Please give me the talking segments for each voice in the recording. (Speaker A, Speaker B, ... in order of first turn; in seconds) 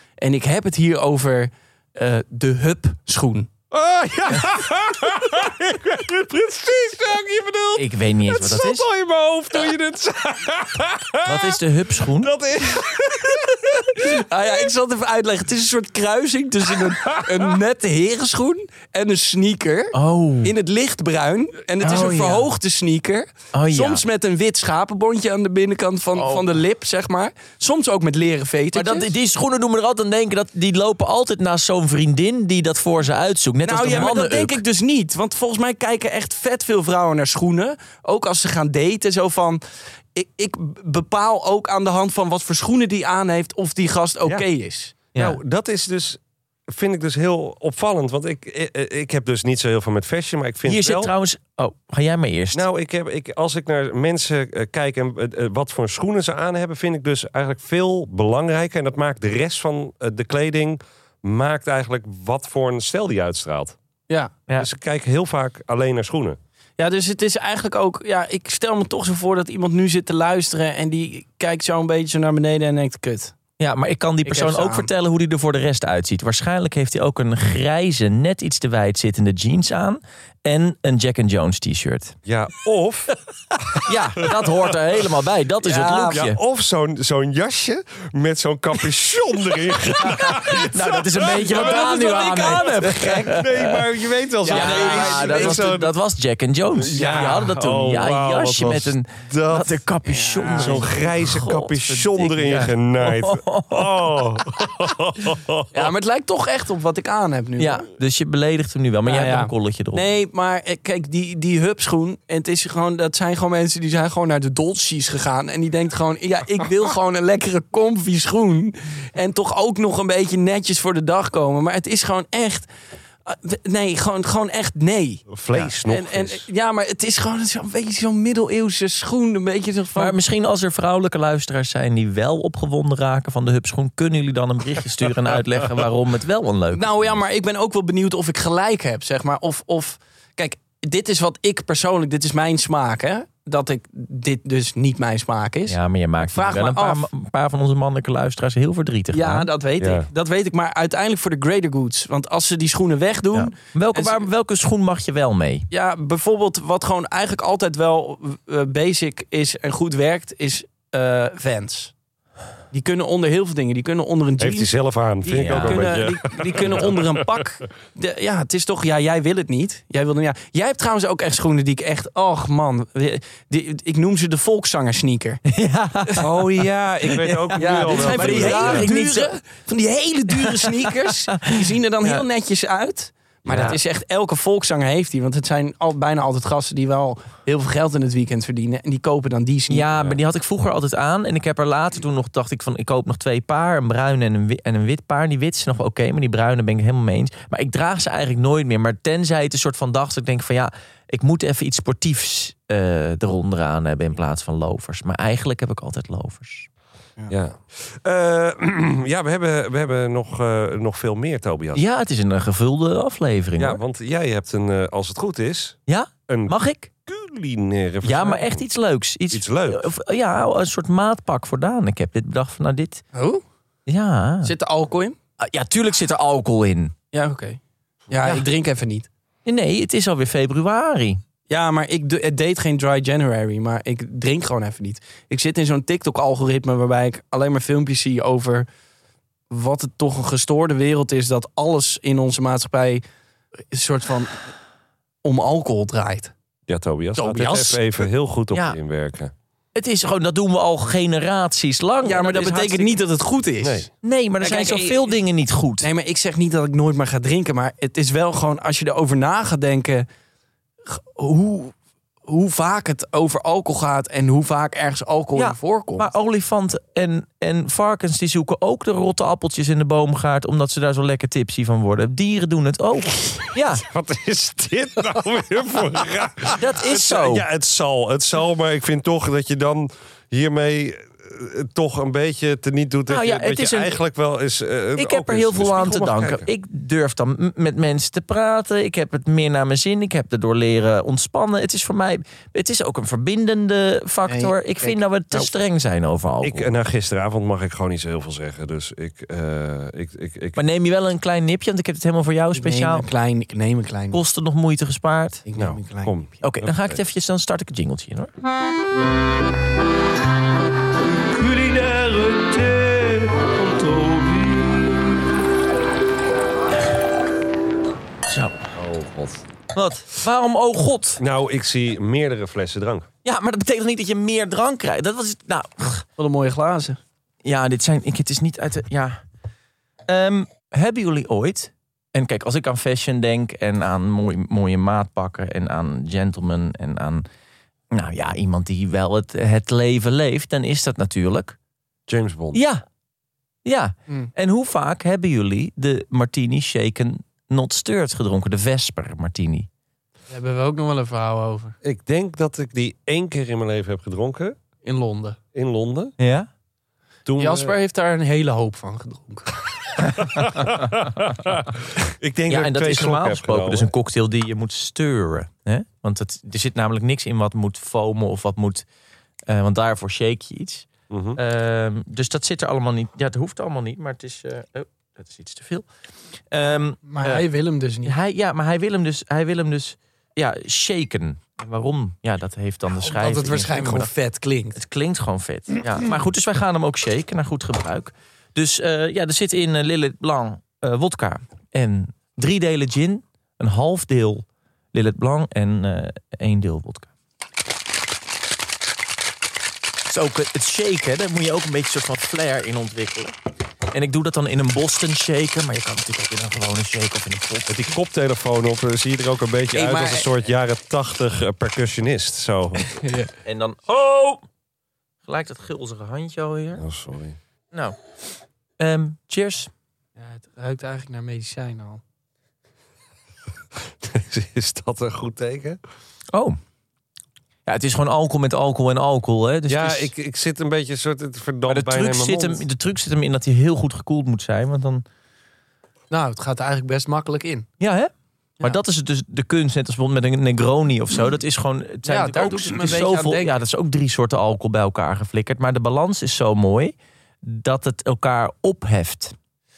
Speaker A: 0.2-3.5, 14.0-29.1, 33.6-39.6, 40.1-45.0, 66.8-73.3, 74.2-74.9, 85.6-86.2, 91.2-93.5, 94.4-95.7, 96.9-97.5, 100.0-101.0, 105.7-107.9, 109.0-122.7, 123.2-130.2, 136.7-147.1, 149.1-154.2, 155.7-161.9, 162.7-175.4, 177.6-189.9, 223.1-223.4, 224.4-225.2, 227.1-229.1, 231.5-238.7, 239.5-243.0, 243.7-244.5, 245.2-246.3, 247.2-247.9, 252.0-255.2, 255.8-260.1, 260.9-261.7, 262.2-266.1, 294.2-295.5, 302.5-304.2, 305.4-306.1, 326.2-327.0, 350.3-351.8, 354.8-355.4, 357.4-360.0, 377.1-378.1, 383.0-384.8, 409.7-410.3, 413.0-413.3, 420.2-422.0, 436.1-437.7, 442.0-443.6
Speaker B: 3.7-11.6, 12.1-13.9, 45.1-51.1, 52.5-63.8, 64.5-66.4, 82.2-83.1, 86.1-95.9, 96.8-99.8, 100.5-105.8, 125.3-126.5, 149.8-150.1, 164.4-167.2, 176.2-178.9, 183.4-183.8, 207.3-211.8, 213.6-216.5, 217.1-218.6, 219.3-219.9, 246.7-249.3, 253.6-253.9, 273.7-286.5, 296.4-300.6, 305.6-307.0, 318.7-319.5, 321.2-323.1, 342.1-342.6, 351.8-354.6, 355.5-356.1, 357.2-357.7, 360.2-363.9, 371.1-371.4, 407.7-413.0, 416.8-417.4, 424.0-425.8, 429.7-432.6
Speaker C: 7.8-8.8, 11.2-12.3, 19.9-20.5, 21.8-22.5, 23.5-24.0, 26.1-26.5, 28.7-34.6, 50.6-52.6, 73.6-82.2, 83.8-86.4, 90.0-93.8, 94.4-104.4, 107.6-110.0, 129.9-137.2, 145.7-149.5, 153.3-155.7, 165.3-165.9, 175.5-176.3, 177.0-179.3, 180.3-182.2, 183.5-183.8, 189.7-206.7, 211.7-213.8, 215.9-216.9, 218.0-223.0, 223.9-224.5, 225.4-226.9, 229.4-231.2, 248.5-248.8, 249.7-252.9, 254.0-255.9, 265.3-273.8, 276.6-277.4, 283.1-284.0, 285.0-296.7, 300.6-303.1, 304.1-305.4, 306.4-308.3, 318.3-318.6, 319.7-321.2, 323.2-326.1, 327.4-329.2, 330.1-337.2, 337.9-341.6, 342.5-342.8, 343.6-349.7, 356.2-356.5, 362.5-368.9, 369.5-375.9, 376.5-377.4, 378.0-384.1, 384.7-397.1, 400.1-403.4, 403.9-407.8, 413.4-414.4, 415.2-416.8, 417.7-418.0, 418.8-419.7, 426.3-426.6, 427.6-430.1, 431.7-435.0, 437.8-449.4